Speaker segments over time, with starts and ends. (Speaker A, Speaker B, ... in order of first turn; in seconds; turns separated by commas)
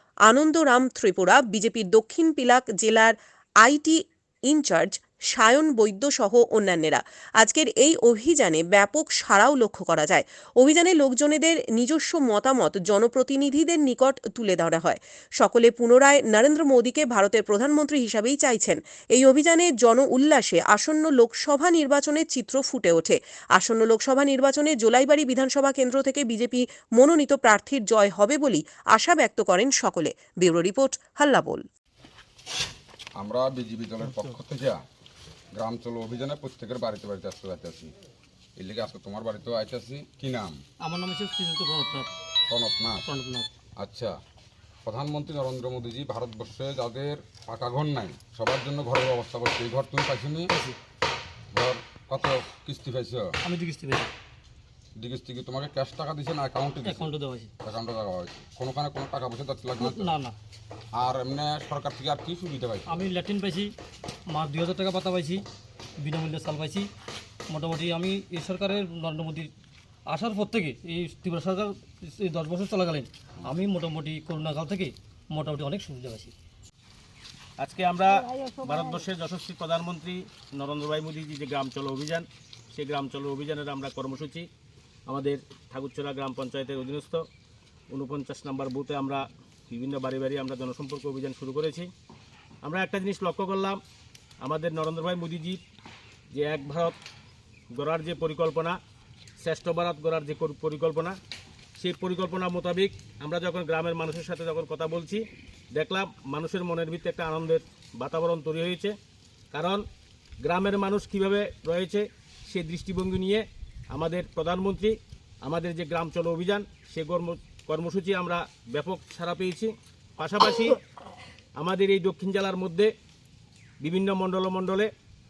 Speaker A: 0.3-31.6, Speaker B: 33.2-34.8, Speaker B: 35.5-37.9, Speaker B: 38.6-40.6, Speaker C: 40.8-42.1, Speaker B: 42.5-43.0, Speaker C: 43.0-43.5, Speaker B: 43.8-44.1, Speaker B: 44.8-50.5, Speaker C: 50.5-50.8, Speaker B: 51.5-53.3, Speaker C: 53.4-54.1, Speaker B: 55.0-60.1, Speaker C: 56.8-57.5, Speaker C: 59.8-60.3, Speaker B: 61.0-63.1, Speaker C: 62.9-63.7, Speaker C: 64.3-65.4, Speaker C: 66.0-66.9, Speaker C: 67.5-69.5, Speaker C: 70.1-76.3, Speaker D: 77.6-84.5, Speaker D: 85.1-87.2, Speaker D: 87.9-91.9, Speaker D: 92.6-93.8, Speaker D: 94.4-95.6, Speaker D: 96.3-97.0, Speaker D: 97.7-98.8, Speaker D: 99.4-101.2, Speaker D: 101.8-108.9, Speaker D: 109.5-109.8, Speaker D: 110.4-120.8, Speaker D: 121.5-122.9, Speaker D: 123.8-124.9